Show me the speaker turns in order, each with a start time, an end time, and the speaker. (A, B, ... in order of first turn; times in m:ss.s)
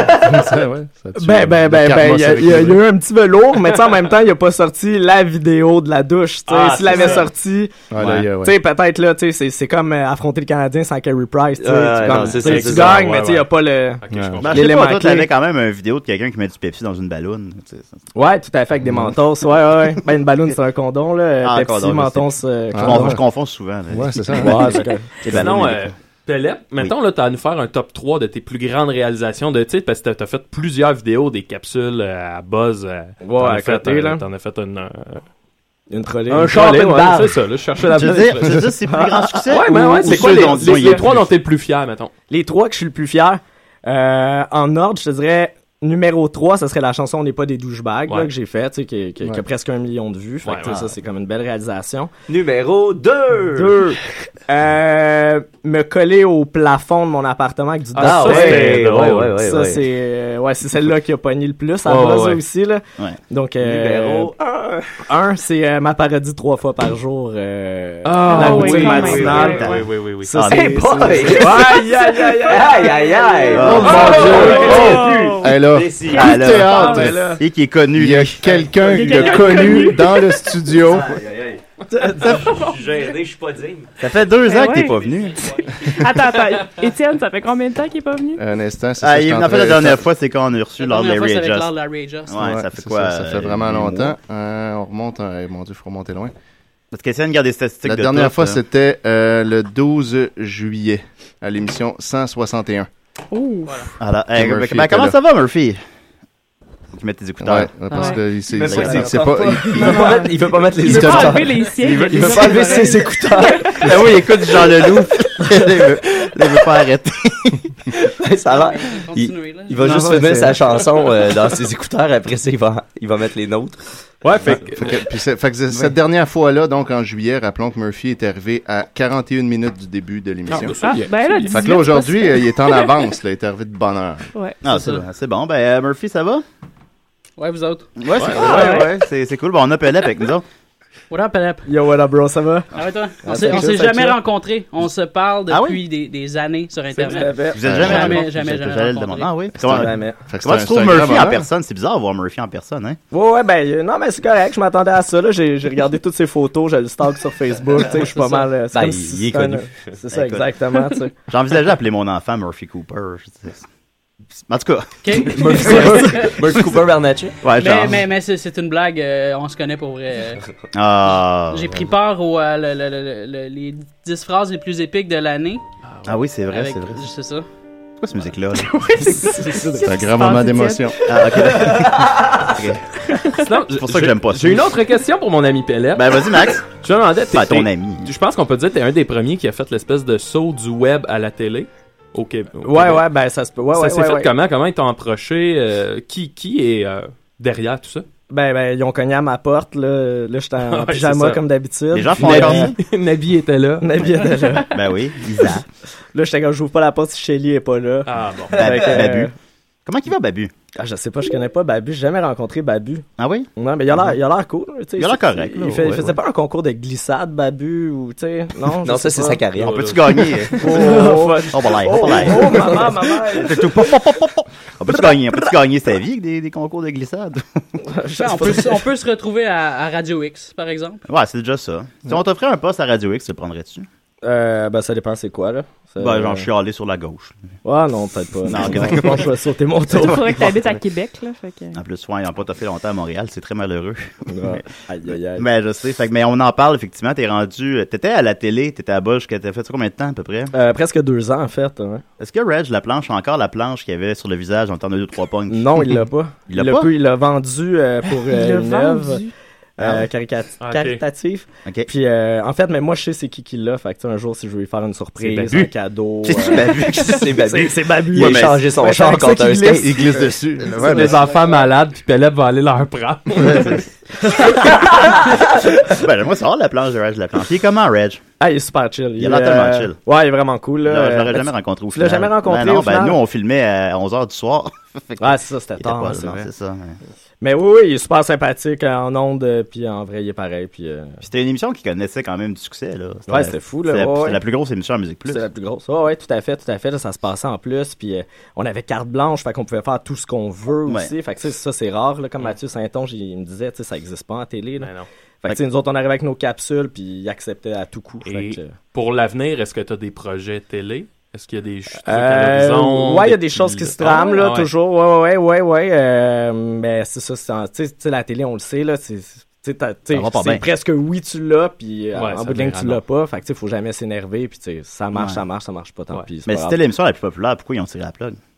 0:00.2-0:02.8 A
0:01.1-0:15.3 B
0:06.5-0:07.3 C
0:07.9-0:08.6 A
0:08.0-0:08.2 D
0:11.6-0:13.1 E
0:12.3-0:13.5 C
0:14.0-0:14.9 C
0:14.1-0:14.5 A
0:14.4-0:18.0 D
0:18.1-0:23.2 B
0:18.8-0:19.1 A
0:21.4-0:25.9 D
0:22.7-0:23.2 A
0:23.9-0:24.8 A
0:24.3-0:25.1 B
0:25.3-0:35.2 C
0:33.2-0:34.2 B
0:35.9-0:37.3 B
0:36.3-0:38.7 C
0:37.9-0:41.3 D
0:38.9-0:41.0 B
0:39.5-0:42.1 C
0:42.3-0:52.1 B
0:50.4-0:50.7 C
0:52.3-0:53.8 E
0:53.5-1:04.3 B
0:57.9-0:59.4 C
0:58.0-0:59.8 E
1:01.8-1:02.4 C
1:03.6-1:04.8 E
1:04.9-1:15.4 B
1:08.0-1:10.3 C
1:08.2-1:09.8 F
1:09.0-1:09.5 E
1:10.3-1:16.7 E
1:11.8-1:12.7 F
1:13.4-1:15.6 F
1:13.5-1:14.1 D
1:13.6-1:17.3 A
1:16.1-1:18.6 D
1:16.5-1:17.4 B
1:17.9-1:21.2 A
1:18.8-1:20.3 F
1:19.0-1:19.7 E
1:20.8-1:23.9 E
1:21.9-1:22.4 B
1:22.4-1:23.0 F
1:24.0-1:26.0 D
1:24.4-1:25.0 F
1:25.8-1:28.4 F
1:28.4-1:30.0 A
1:29.0-1:31.7 D
1:30.8-1:32.3 G
1:32.3-1:34.1 D
1:32.3-1:36.3 A
1:36.9-1:38.6 D
1:37.8-1:42.9 A
1:43.3-1:43.9 F
1:44.0-1:45.8 D
1:44.3-1:45.2 A
1:46.9-1:48.0 D
1:47.4-1:50.1 A
1:47.9-1:48.2 F
1:48.5-1:53.9 E
1:48.7-1:49.1 D
1:48.8-1:49.9 B
1:49.7-1:53.8 F
1:50.8-1:51.5 A
1:53.8-1:57.6 D
1:57.9-2:03.8 E
1:58.4-1:59.8 G
1:59.8-2:00.6 A
1:59.9-2:00.3 B
2:04.2-2:05.0 C
2:04.4-2:10.8 A
2:10.5-2:11.6 C
2:10.7-2:13.1 F
2:11.5-2:14.2 A
2:14.3-2:14.6 F
2:14.6-2:16.4 D
2:14.6-2:15.0 G
2:17.4-2:17.9 G
2:18.0-2:20.4 D
2:18.1-2:18.8 C
2:18.5-2:18.8 B
2:21.1-2:21.6 G
2:21.6-2:22.7 B
2:22.7-2:29.4 G
2:23.2-2:24.2 B
2:25.5-2:25.8 D
2:27.0-2:27.6 B
2:27.4-2:33.0 D
2:27.6-2:28.2 A
2:29.6-2:31.5 A
2:29.6-2:30.2 B
2:33.1-2:41.1 B
2:37.8-2:38.5 G
2:38.7-2:40.4 E
2:41.3-2:43.6 D
2:44.5-2:46.0 D
2:45.0-2:46.3 G
2:45.7-2:47.4 E
2:45.7-2:46.0 B
2:47.4-2:48.1 D
2:47.5-2:50.4 G
2:50.7-2:51.9 D
2:51.5-2:55.6 G
2:55.8-2:56.2 C
2:56.0-2:57.0 D
2:56.5-2:57.4 G
2:58.0-2:58.8 D
2:58.7-3:01.4 F
2:59.2-2:59.9 B
2:59.8-3:01.0 A
3:01.0-3:02.8 D
3:03.4-3:13.0 C
3:03.7-3:04.7 D
3:05.9-3:06.6 D
3:07.3-3:08.1 D
3:12.6-3:14.3 B
3:13.7-3:18.0 C
3:18.3-3:22.7 B
3:20.6-3:21.4 C
3:21.9-3:22.8 D
3:22.2-3:24.2 C
3:23.8-3:24.7 B
3:24.7-3:25.6 D
3:26.1-3:29.3 B
3:28.0-3:28.9 C
3:28.5-3:29.3 D
3:29.8-3:30.5 D
3:30.8-3:33.0 B
3:33.2-3:33.5 D
3:33.6-3:39.4 B
3:35.0-3:36.1 D
3:38.8-3:40.0 E
3:39.5-3:40.4 C
3:39.6-3:47.6 D
3:40.5-3:43.7 B
3:47.8-3:48.8 B
3:48.2-3:51.0 G
3:51.1-3:53.9 D
3:54.2-3:56.5 B
3:56.0-3:57.4 D
3:57.6-4:00.4 B
3:58.4-3:59.3 D
3:59.9-4:01.8 F
4:00.1-4:00.7 D
4:01.7-4:04.6 D
4:04.3-4:05.4 B
4:05.4-4:10.5 D
4:10.5-4:12.0 B
4:12.2-4:15.9 D
4:15.5-4:19.2 B
4:16.5-4:16.9 D
4:18.3-4:19.3 F
4:19.8-4:31.4 B
4:19.8-4:20.0 D
4:20.6-4:21.0 C
4:25.2-4:25.7 C
4:26.2-4:27.3 D
4:26.6-4:30.0 E
4:28.1-4:28.6 D
4:29.7-4:31.2 A
4:30.8-4:33.8 C
4:33.4-4:33.8 D
4:34.3-4:34.8 B
4:35.8-4:38.2 D
4:38.4-4:43.2 B
4:39.2-4:40.0 D
4:40.8-4:47.0 D
4:45.2-4:46.5 B
4:47.4-4:51.2 B
4:51.2-4:55.4 D
4:53.3-4:54.4 B
4:55.3-5:04.9 B
5:00.9-5:01.1 D
5:04.8-5:05.1 C
5:05.4-5:08.7 B
5:08.2-5:14.7 C
5:12.0-5:26.8 B
5:20.1-5:20.6 D
5:22.1-5:23.0 C
5:25.1-5:25.4 D
5:26.4-5:28.4 D